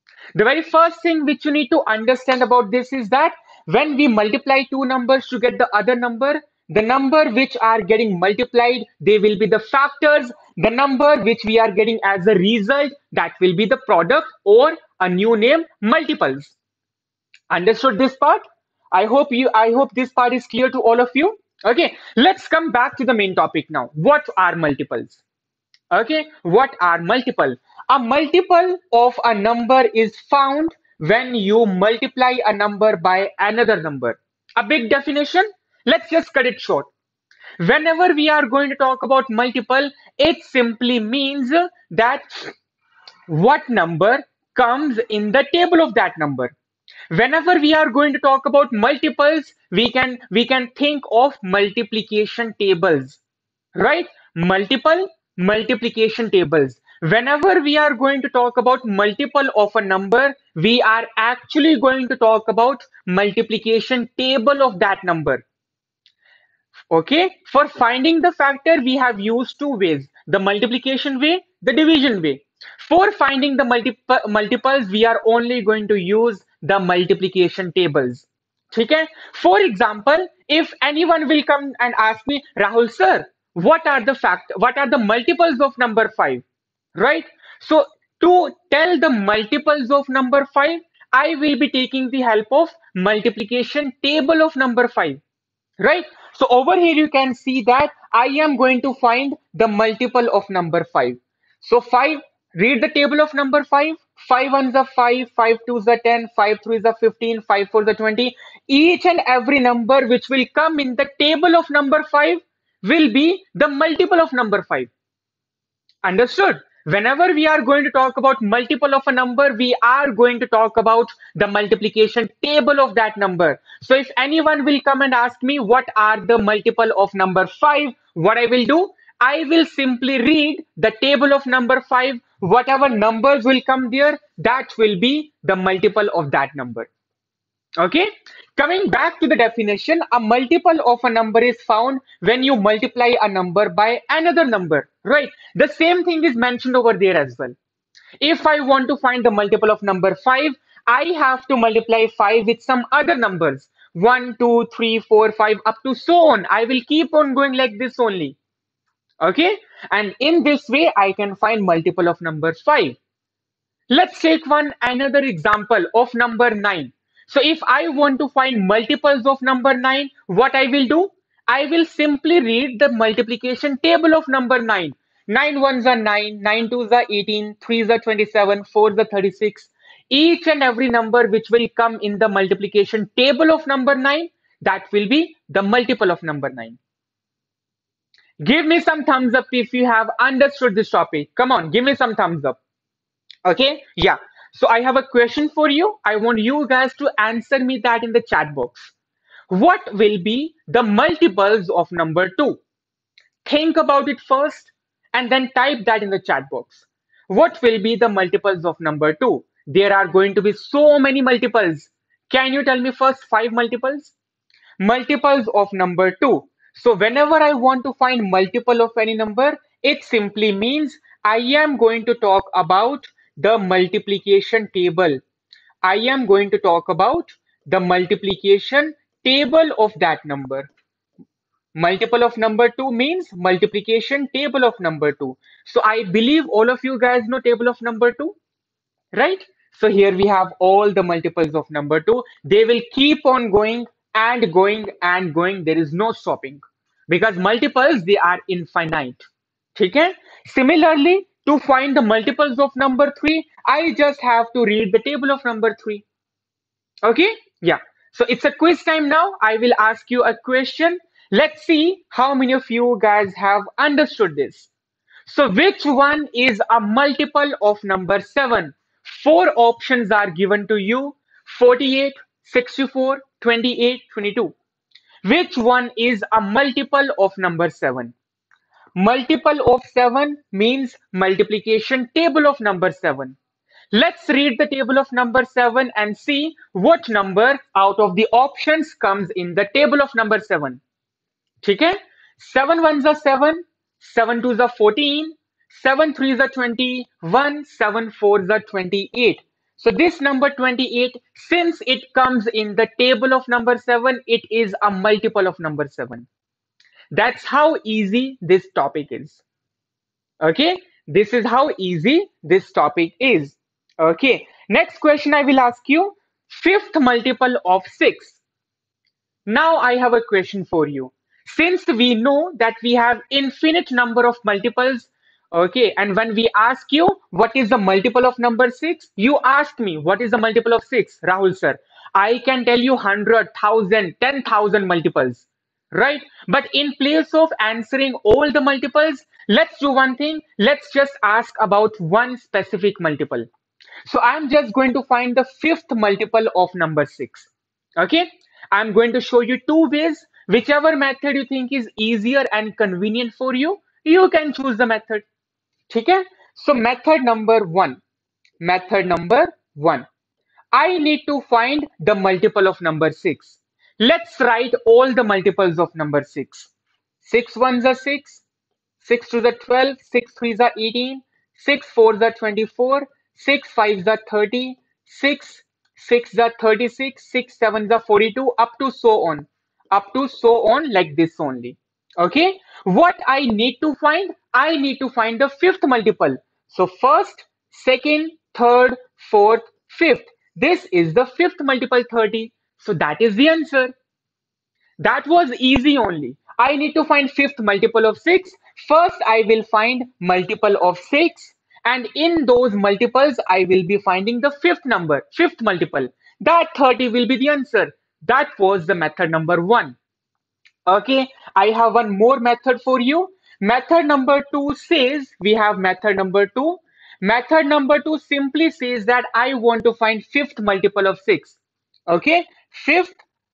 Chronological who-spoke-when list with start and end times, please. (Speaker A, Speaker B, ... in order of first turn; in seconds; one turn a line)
Speaker A: 0.3-16.6
Speaker A: 17.5-25.2
Speaker A: 25.9-36.9
Speaker A: 37.6-42.5
Speaker A: 43.3-46.5
Speaker A: 47.1-53.2
Speaker A: 53.7-65.4
Speaker A: 66.9-86.4
Speaker A: 87.0-95.2
Speaker A: 95.8-114.9
Speaker A: 116.0-136.9
Speaker A: 137.8-147.6
Speaker A: 148.2-158.4
Speaker A: 159.2-163.0
Speaker A: 163.9-186.8
Speaker A: 188.4-192.6
Speaker A: 193.4-198.9
Speaker A: 199.5-202.6
Speaker A: 203.4-214.1
Speaker A: 214.8-225.2
Speaker A: 225.8-230.7
Speaker A: 231.8-238.3
Speaker A: 239.1-256.0
Speaker A: 257.0-264.7
Speaker A: 265.3-274.5
Speaker A: 275.2-278.1
Speaker A: 278.9-283.4
Speaker A: 283.9-290.8
Speaker A: 291.6-306.3
Speaker A: 307.1-309.4
Speaker A: 310.4-318.4
Speaker A: 319.5-343.4
Speaker A: 344.1-355.2
Speaker A: 355.9-358.0
Speaker A: 358.6-360.1
Speaker A: 360.7-366.7
Speaker A: 367.2-368.4
Speaker A: 369.0-393.9
Speaker A: 395.0-410.0
Speaker A: 410.9-423.2